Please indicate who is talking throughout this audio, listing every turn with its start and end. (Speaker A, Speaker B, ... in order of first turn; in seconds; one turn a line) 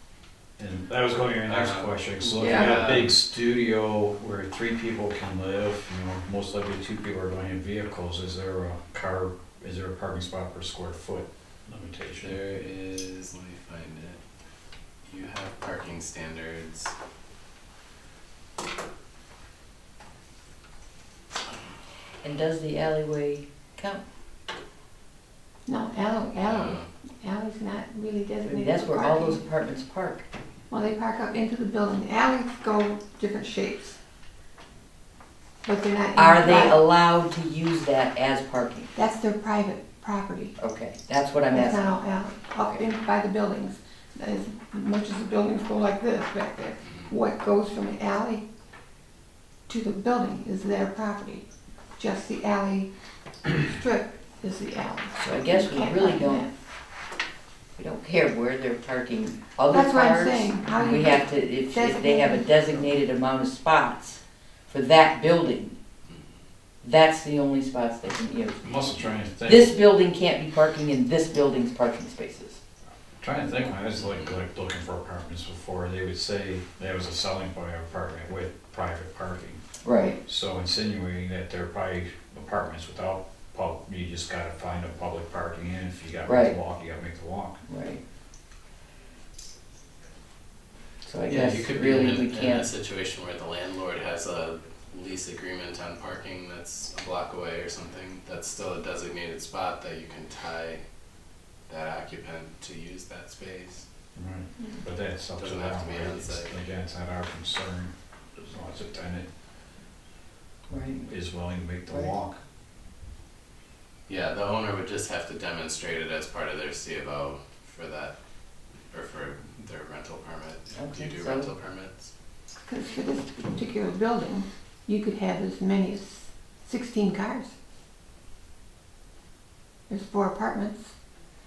Speaker A: 0.6-12.4
Speaker B: 1.4-3.1
Speaker C: 2.4-2.8
Speaker B: 12.2-14.2
Speaker B: 15.1-16.9
Speaker D: 22.2-24.0
Speaker C: 25.7-29.4
Speaker B: 26.4-26.9
Speaker D: 28.4-30.2
Speaker C: 30.7-34.0
Speaker C: 35.6-36.8
Speaker D: 36.1-38.9
Speaker C: 39.0-40.5
Speaker D: 40.6-41.9
Speaker C: 41.5-48.5
Speaker D: 42.6-42.8
Speaker B: 46.8-47.1
Speaker C: 49.7-51.4
Speaker C: 52.0-52.9
Speaker C: 53.6-56.5
Speaker D: 55.2-56.5
Speaker D: 57.8-65.8
Speaker C: 59.7-62.7
Speaker D: 66.8-68.7
Speaker A: 68.6-69.8
Speaker D: 69.4-72.6
Speaker A: 73.2-79.6
Speaker B: 73.9-74.4
Speaker D: 79.8-80.2
Speaker A: 80.2-87.6
Speaker D: 86.3-86.6
Speaker D: 87.7-88.0
Speaker D: 91.0-92.7
Speaker B: 91.3-100.8
Speaker B: 101.7-103.8
Speaker A: 104.2-109.3
Speaker B: 105.4-106.5
Speaker D: 110.7-111.1
Speaker A: 111.0-112.4
Speaker D: 111.9-112.2
Speaker B: 114.1-118.2
Speaker B: 118.9-122.1
Speaker D: 120.8-121.5
Speaker C: 122.7-127.5
Speaker C: 129.9-130.9